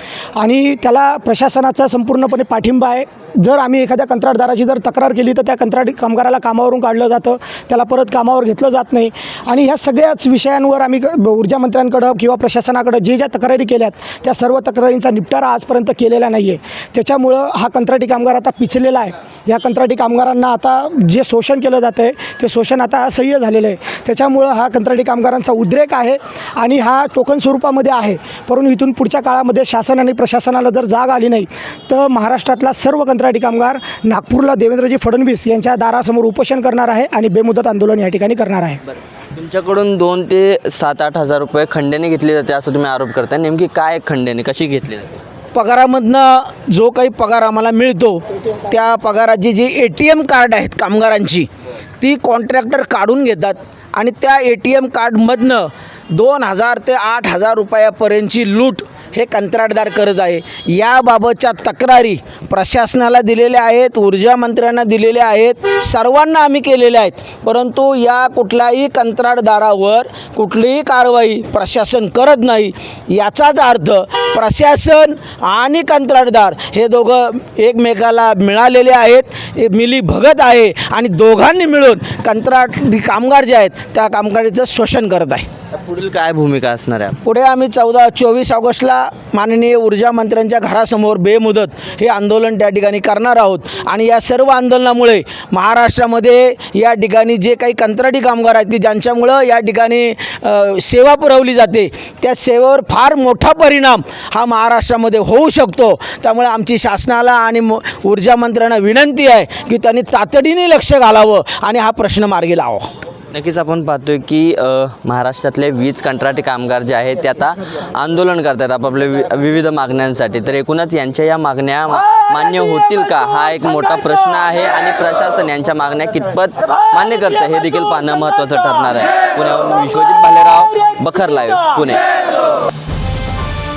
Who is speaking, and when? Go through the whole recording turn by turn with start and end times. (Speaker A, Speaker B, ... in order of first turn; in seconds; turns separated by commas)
Speaker A: 0.4-38.8, Speaker B: 39.3-45.2, Speaker C: 45.5-51.5, Speaker C: 52.0-85.5, Speaker B: 85.8-87.2, Speaker C: 87.2-112.9, Speaker B: 113.3-132.0